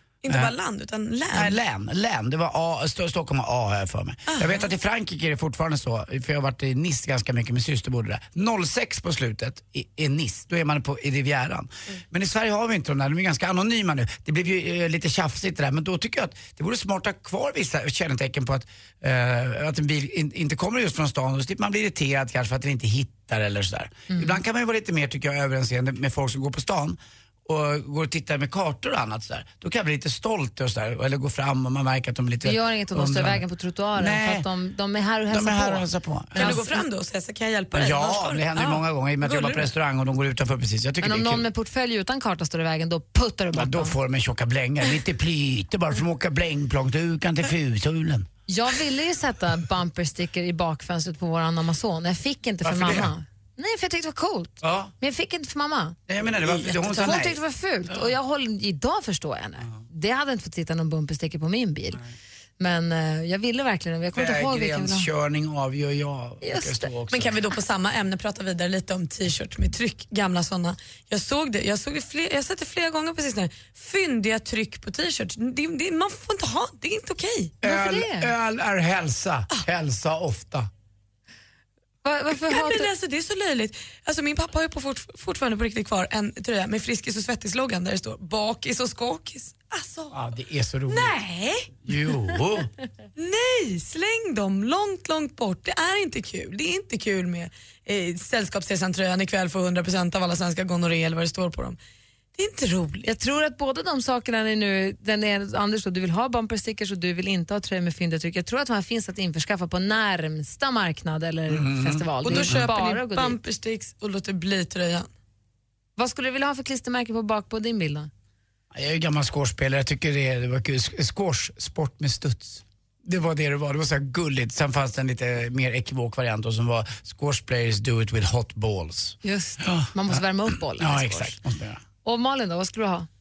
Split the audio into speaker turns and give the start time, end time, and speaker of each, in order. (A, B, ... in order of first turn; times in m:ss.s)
0:00.2-0:01.6 A
0:01.3-0:33.4 B
0:04.3-0:04.7 A
0:24.1-0:24.4 C
0:32.4-0:36.8 C
0:34.0-0:34.5 B
0:35.3-0:36.5 B
0:36.4-0:39.7 A
0:37.7-0:41.5 B
0:41.0-0:44.0 C
0:43.5-0:48.3 B
0:48.5-0:56.0 C
0:52.6-0:53.1 B
0:54.6-0:54.9 B
0:56.1-0:57.4 B
0:56.5-0:57.2 A
0:56.9-1:02.0 C
1:02.6-1:05.1 C
1:04.1-1:07.4 B
1:06.4-1:06.9 C
1:07.1-1:17.5 A
1:17.6-1:20.7 B
1:17.6-1:18.3 C
1:22.0-1:22.9 C
1:22.3-1:30.2 A
1:30.1-1:31.2 B
1:30.9-1:31.7 A
1:31.8-1:32.7 B
1:33.2-1:41.8 A
1:42.4-1:53.4 C
1:42.5-1:43.0 A
1:51.5-1:52.7 B
1:52.2-1:55.1 A
1:56.0-1:58.1 C
1:58.7-2:11.8 B
2:09.2-2:11.4 C
2:12.0-2:13.1 C